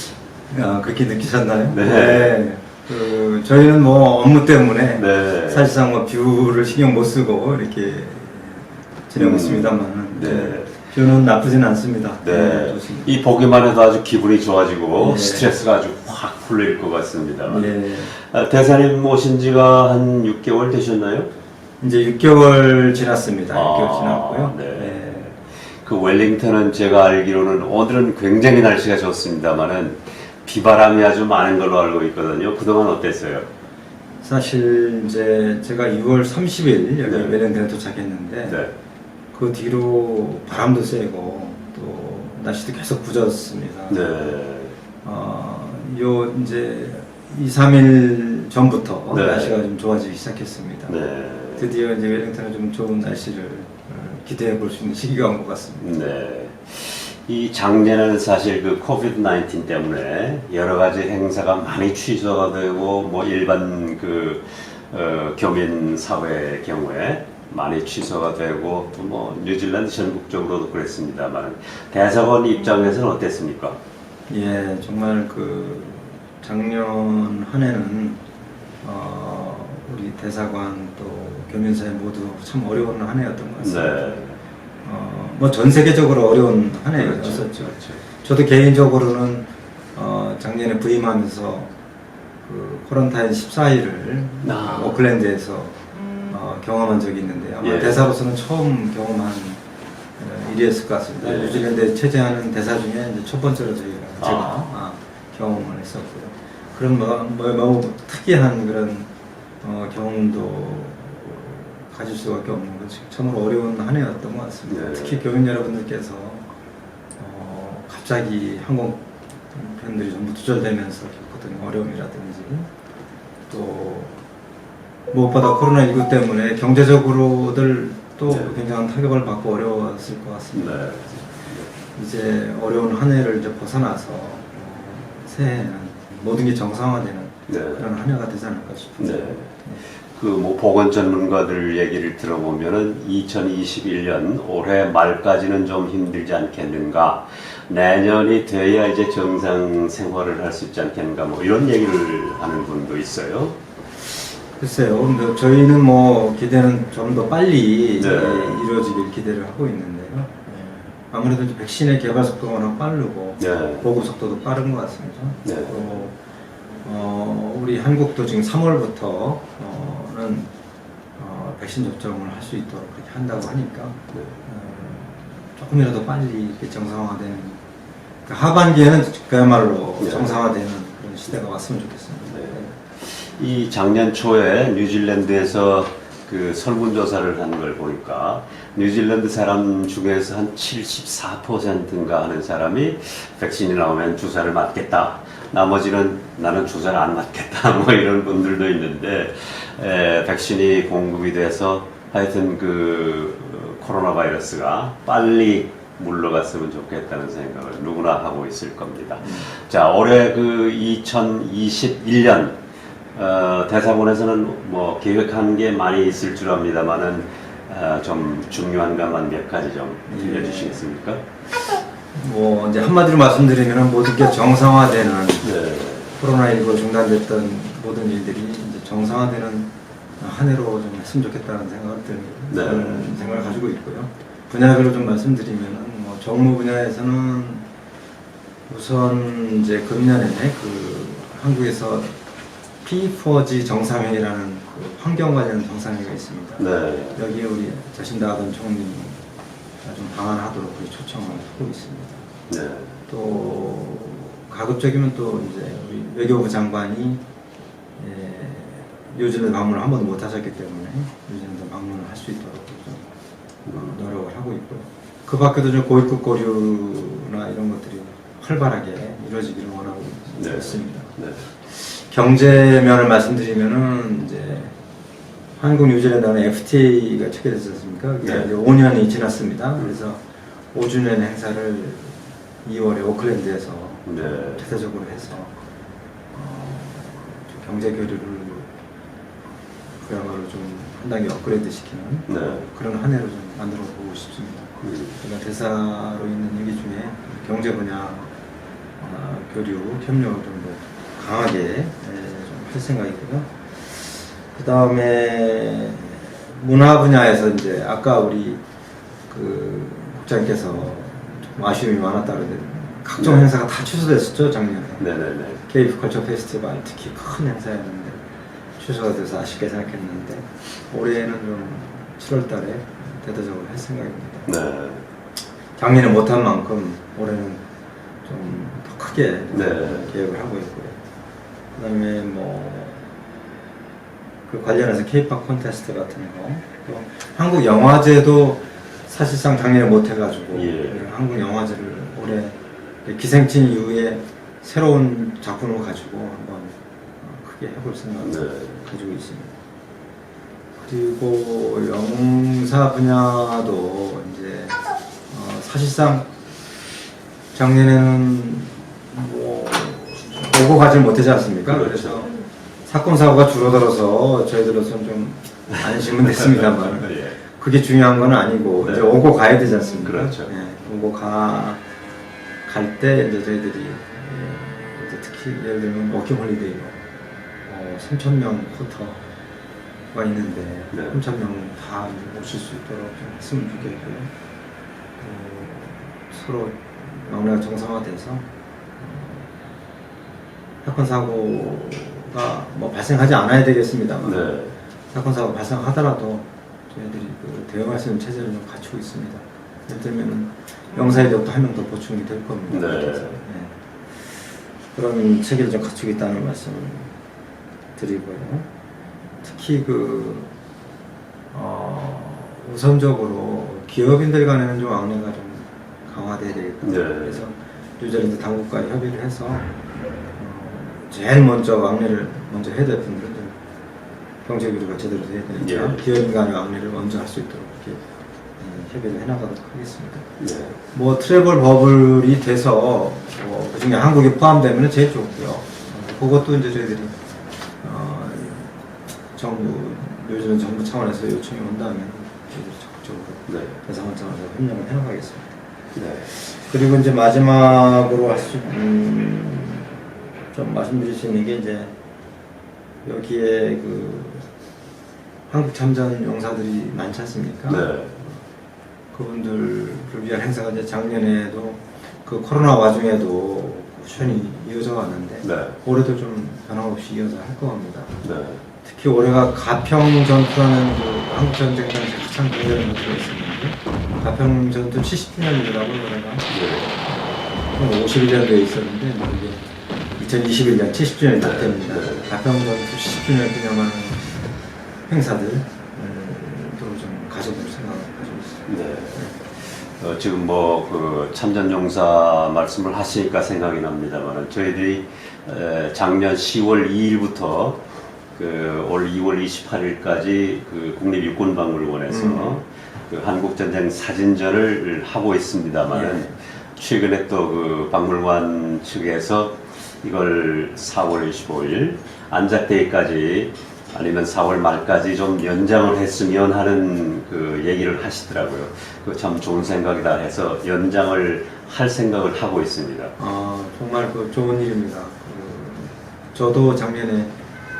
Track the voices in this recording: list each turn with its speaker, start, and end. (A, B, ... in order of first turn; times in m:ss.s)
0:00.5-0:13.2 A
0:01.7-0:02.3 B
0:05.0-0:05.7 B
0:09.2-0:10.7 B
0:12.2-0:21.3 B
0:15.0-0:15.5 A
0:17.4-0:18.1 A
0:21.8-0:25.3 A
0:23.5-0:33.5 B
0:34.2-0:38.6 A
0:37.0-0:37.4 B
0:38.5-0:38.7 B
0:39.3-0:44.0 A
0:43.9-0:44.8 B
0:45.0-0:51.0 A
0:49.1-0:49.6 B
0:50.9-0:51.7 B
0:51.6-0:55.9 A
0:55.8-1:13.8 B
1:14.3-1:18.2 A
1:18.8-1:24.0 A
1:23.6-1:24.4 B
1:24.8-1:31.7 A
1:27.0-1:28.0 B
1:32.4-1:39.6 A
1:34.4-1:35.0 B
1:37.6-1:38.0 B
1:40.2-1:49.1 A
1:41.2-1:41.6 B
1:44.2-1:44.6 B
1:49.6-1:56.4 A
1:54.7-1:55.2 B
1:57.2-2:02.7 A
2:03.5-2:04.2 A
2:05.1-2:19.8 A
2:10.5-2:11.7 B
2:17.5-2:17.9 B
2:19.0-2:19.5 B
2:20.1-2:33.6 B
2:34.6-2:46.2 A
2:38.0-2:38.6 B
2:43.4-2:43.8 B
2:45.4-2:45.7 B
2:46.8-2:50.5 A
2:51.2-2:57.6 A
2:58.2-3:02.7 A
3:00.0-3:00.4 B
3:02.3-3:32.6 B
3:33.1-3:41.2 B
3:40.1-3:40.8 A
3:42.1-3:45.5 A
3:45.4-3:46.2 B
3:46.2-3:57.7 A
3:52.5-3:53.0 B
3:58.7-4:02.2 A
4:02.8-4:09.2 A
4:06.6-4:07.2 B
4:09.8-4:12.3 A
4:12.5-4:12.9 B
4:13.1-4:17.2 A
4:18.0-4:23.1 A
4:23.6-4:23.9 B
4:23.7-4:34.8 A
4:30.4-4:31.4 B
4:35.6-4:40.2 A
4:40.7-4:45.5 A
4:44.0-4:44.6 B
4:46.3-4:48.7 A
4:50.0-4:58.3 A
4:52.3-4:52.6 B
4:54.8-4:55.2 B
4:59.0-5:08.6 A
5:09.3-5:15.1 A
5:13.2-5:13.5 B
5:15.0-5:15.6 B
5:15.7-5:18.2 A
5:18.8-5:24.5 A
5:24.5-5:25.0 B
5:25.8-5:27.6 A
5:28.2-5:31.0 A
5:29.5-5:30.1 B
5:31.7-5:33.0 A
5:34.5-5:49.5 A
5:40.5-5:41.0 B
5:48.2-5:48.8 B
5:50.8-5:56.3 A
5:57.5-6:11.8 A
6:01.6-6:02.2 B
6:06.2-6:07.4 B
6:08.8-6:09.2 B
6:10.0-6:10.5 B
6:12.6-6:17.0 A
6:17.6-6:19.2 A
6:20.1-6:24.3 A
6:25.2-6:28.4 A
6:29.0-6:29.6 A
6:30.8-6:34.5 A
6:34.2-6:34.7 B
6:35.1-6:47.1 A
6:42.7-6:43.4 B
6:48.0-6:48.7 A
6:49.4-6:50.5 A
6:51.5-6:59.7 A
6:56.8-6:57.4 B
7:00.4-7:03.5 A
7:04.4-7:08.0 A
7:05.6-7:06.0 B
7:08.6-7:10.3 A
7:10.4-7:10.8 B
7:10.9-7:17.1 A
7:17.8-7:18.7 A
7:19.3-7:25.5 A
7:23.5-7:23.7 B
7:26.0-7:26.3 B
7:26.2-7:31.9 A
7:33.0-7:34.5 A
7:35.5-7:38.4 A
7:37.7-7:38.1 B
7:39.1-7:48.2 A
7:45.4-7:45.8 B
7:48.2-7:48.6 B
7:48.8-8:04.5 A
7:56.5-7:56.9 B
8:01.4-8:02.3 B
8:05.1-8:09.3 A
8:08.7-8:43.1 B
8:22.1-8:22.6 A
8:25.9-8:26.3 A
8:43.2-8:47.3 A